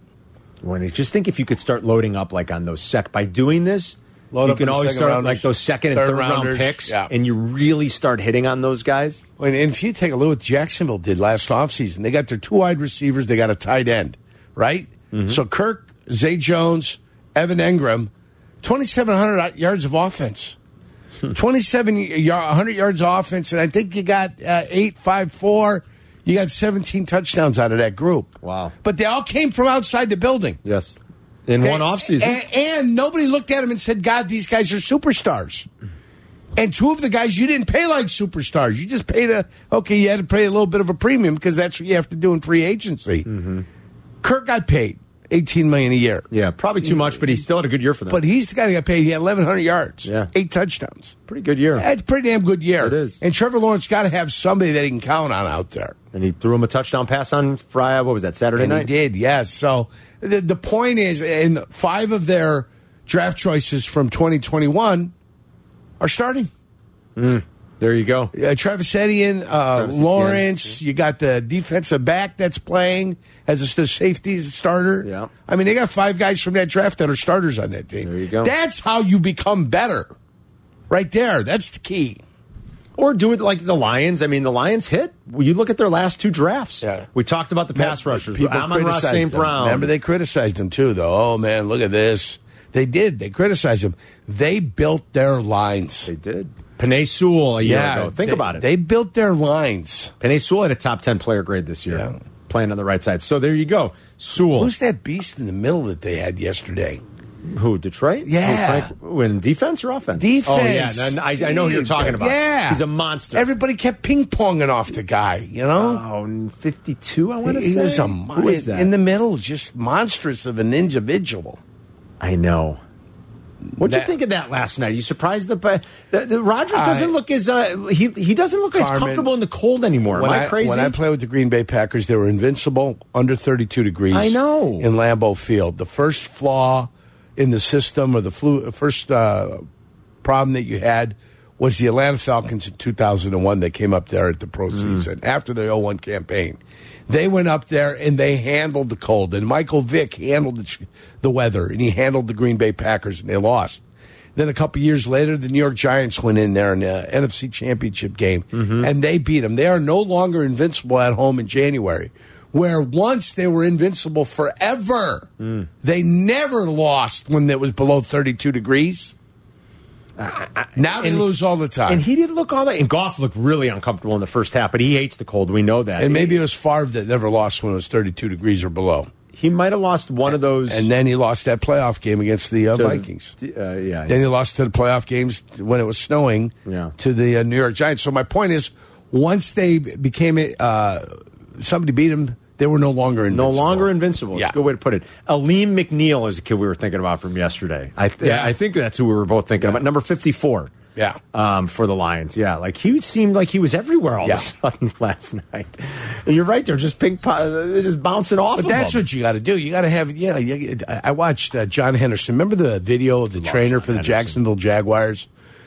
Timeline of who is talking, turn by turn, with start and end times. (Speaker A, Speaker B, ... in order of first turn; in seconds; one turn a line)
Speaker A: 0.6-9.2
Speaker B: 4.3-7.1
Speaker B: 9.4-18.1
Speaker A: 15.1-15.4
Speaker B: 18.6-20.6
Speaker B: 21.3-30.6
Speaker A: 28.4-28.7
Speaker A: 30.6-32.4
Speaker B: 31.6-35.7
Speaker B: 36.5-43.2
Speaker A: 43.2-43.6
Speaker B: 44.2-46.3
Speaker A: 46.3-48.2
Speaker B: 46.8-47.3
Speaker B: 48.1-51.1
Speaker A: 50.0-50.3
Speaker A: 51.3-51.9
Speaker B: 51.8-56.0
Speaker A: 52.8-53.2
Speaker A: 56.1-58.9
Speaker B: 58.6-65.1
Speaker B: 66.0-66.5
Speaker A: 67.2-68.3
Speaker B: 68.3-80.1
Speaker A: 69.7-70.7
Speaker A: 75.0-75.3
Speaker A: 78.0-78.5
Speaker B: 80.9-82.2
Speaker A: 83.0-89.9
Speaker B: 86.8-87.1
Speaker B: 87.7-96.1
Speaker A: 96.0-98.7
Speaker B: 97.6-100.1
Speaker A: 100.2-104.7
Speaker B: 104.5-107.0
Speaker A: 107.4-113.5
Speaker B: 108.2-108.9
Speaker B: 110.2-116.0
Speaker A: 115.8-118.9
Speaker B: 117.4-121.6
Speaker A: 122.2-122.8
Speaker B: 123.8-124.1
Speaker A: 123.8-130.9
Speaker B: 126.7-127.1
Speaker B: 128.7-129.3
Speaker B: 130.1-139.6
Speaker A: 134.1-134.9
Speaker B: 140.2-153.8
Speaker A: 144.7-145.0
Speaker B: 154.3-165.3
Speaker A: 158.5-158.9
Speaker A: 165.4-165.7
Speaker B: 165.8-169.1
Speaker A: 170.2-171.3
Speaker B: 170.8-172.0
Speaker A: 171.9-176.4
Speaker B: 176.0-179.1
Speaker A: 179.3-180.9
Speaker B: 180.3-183.3
Speaker A: 182.7-184.2
Speaker B: 184.1-194.5
Speaker A: 186.7-186.9
Speaker A: 193.3-200.7
Speaker B: 198.2-198.5
Speaker A: 201.3-209.0
Speaker B: 208.5-215.3
Speaker A: 213.4-214.4